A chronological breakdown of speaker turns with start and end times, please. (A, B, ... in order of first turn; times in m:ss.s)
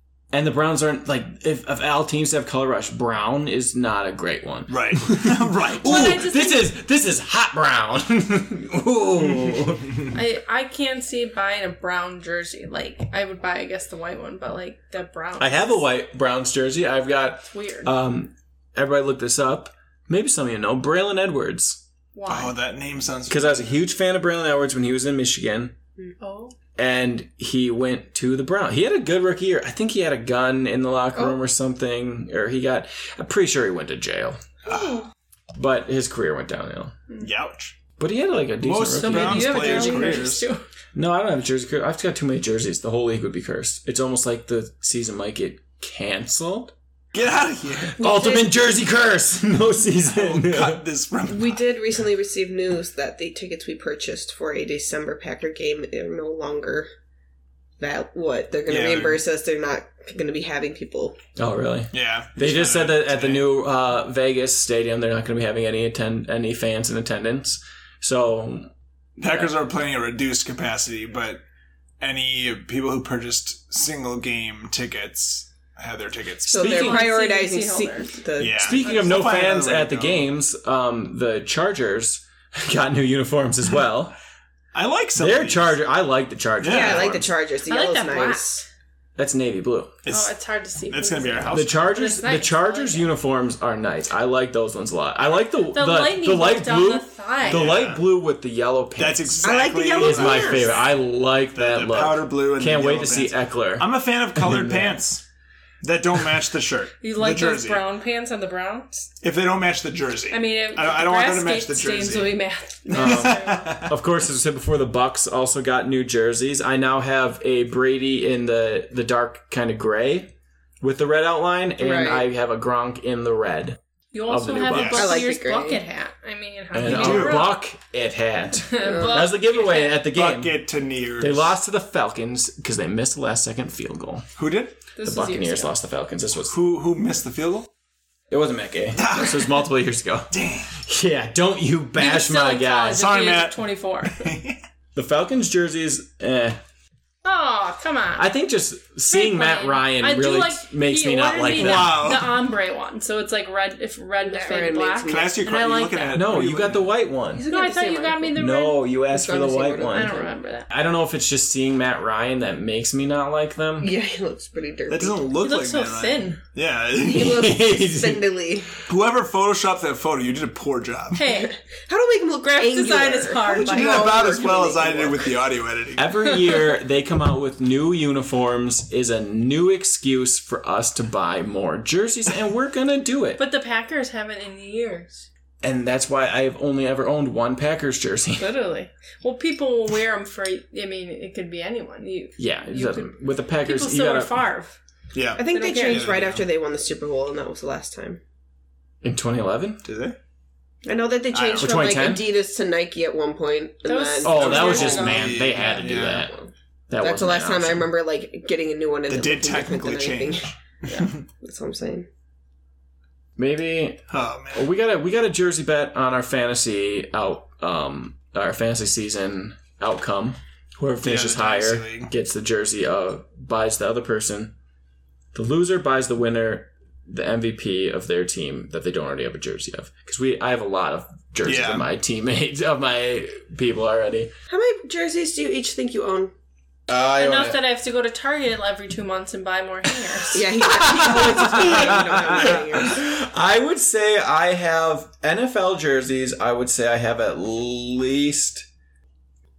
0:00.3-0:10.0 A
0:04.7-0:06.3 B
0:05.8-0:06.6 C
0:10.1-0:15.8 C
0:15.4-0:21.8 A
0:17.5-0:17.9 C
0:22.1-0:22.5 C
0:22.3-0:23.8 B
0:23.3-0:25.7 A
0:26.2-0:26.5 C
0:26.8-0:34.8 A
0:31.1-0:31.4 D
0:34.7-0:35.0 D
0:35.5-0:36.9 A
0:37.2-0:37.8 B
0:38.0-0:40.2 A
0:38.6-0:40.4 B
0:39.0-0:40.6 C
0:40.9-0:46.7 A
0:47.1-0:48.0 B
0:47.9-0:50.8 A
0:48.0-0:48.5 D
0:50.0-0:51.6 B
0:51.3-0:56.9 D
0:57.8-1:01.2 D
0:58.7-0:59.2 B
1:01.4-1:08.7 A
1:01.9-1:03.5 B
1:09.2-1:11.4 B
1:12.0-1:16.7 B
1:16.5-1:18.8 D
1:16.5-1:17.0 A
1:16.6-1:18.1 C
1:18.4-1:20.2 B
1:18.5-1:24.1 A
1:24.7-1:25.8 B
1:25.2-1:27.3 A
1:26.6-1:27.1 B
1:26.6-1:28.6 D
1:27.6-1:28.7 C
1:29.2-1:30.0 A
1:30.0-1:30.3 B
1:30.1-1:33.0 C
1:30.9-1:31.8 B
1:31.5-1:45.0 A
1:35.7-1:37.8 C
1:37.4-1:38.0 B
1:39.0-1:40.8 B
1:39.4-1:40.8 D
1:41.5-1:45.2 B
1:45.8-1:47.8 B
1:47.0-1:49.0 C
1:49.2-1:52.4 B
1:50.3-1:53.7 C
1:52.9-2:05.0 A
1:52.9-1:53.9 B
2:01.8-2:02.2 D
2:04.1-2:07.6 C
2:04.7-2:05.1 B
2:04.9-2:05.8 D
2:06.7-2:10.6 A
2:06.8-2:07.5 B
2:08.7-2:10.0 C
2:08.8-2:09.3 D
2:10.0-2:11.5 B
2:11.2-2:14.3 A
2:14.4-2:14.8 B
2:15.0-2:15.7 C
2:15.0-2:16.5 A
2:16.4-2:17.7 B
2:18.3-2:23.0 A
2:18.9-2:19.7 B
2:20.3-2:20.7 B
2:22.0-2:24.2 C
2:22.9-2:24.6 B
2:24.9-2:26.6 A
2:27.2-2:28.3 C
2:28.2-2:32.2 A
2:29.1-2:36.3 C
2:31.5-2:32.3 B
2:34.2-2:35.5 D
2:35.1-2:36.9 B
2:36.1-2:37.4 A
2:37.3-2:38.4 D
2:37.5-2:38.8 C
2:38.3-2:43.9 A
2:39.1-2:40.2 D
2:39.9-2:40.7 C
2:43.8-2:45.2 D
2:44.9-2:47.5 B
2:45.4-2:46.4 C
2:47.0-2:48.7 D
2:47.1-2:48.3 A
2:48.9-2:51.2 B
2:51.1-2:51.5 C
2:51.3-2:55.3 D
2:52.4-2:54.2 C
2:53.4-2:56.3 B
2:56.0-3:03.4 A
3:03.4-3:05.3 C
3:05.6-3:08.5 A
3:08.4-3:14.8 C
3:12.4-3:14.4 A
3:15.1-3:16.4 B
3:15.4-3:18.2 D
3:15.5-3:16.1 C
3:19.0-3:19.8 A
3:19.8-3:20.2 B
3:20.8-3:30.4 D
3:21.3-3:21.9 B
3:21.6-3:22.3 A
3:23.8-3:25.4 C
3:24.2-3:26.3 A
3:24.4-3:26.3 B
3:26.9-3:27.9 A
3:29.1-3:31.2 B
3:31.4-3:32.1 D
3:33.4-3:44.5 A
3:34.1-3:34.7 B
3:41.0-3:42.1 B
3:45.3-3:54.3 A
3:51.4-3:51.8 B
3:54.5-3:56.3 D
3:56.9-3:57.6 A
3:57.2-4:00.5 C
4:00.3-4:03.0 D
4:00.6-4:08.7 A
4:01.0-4:02.6 B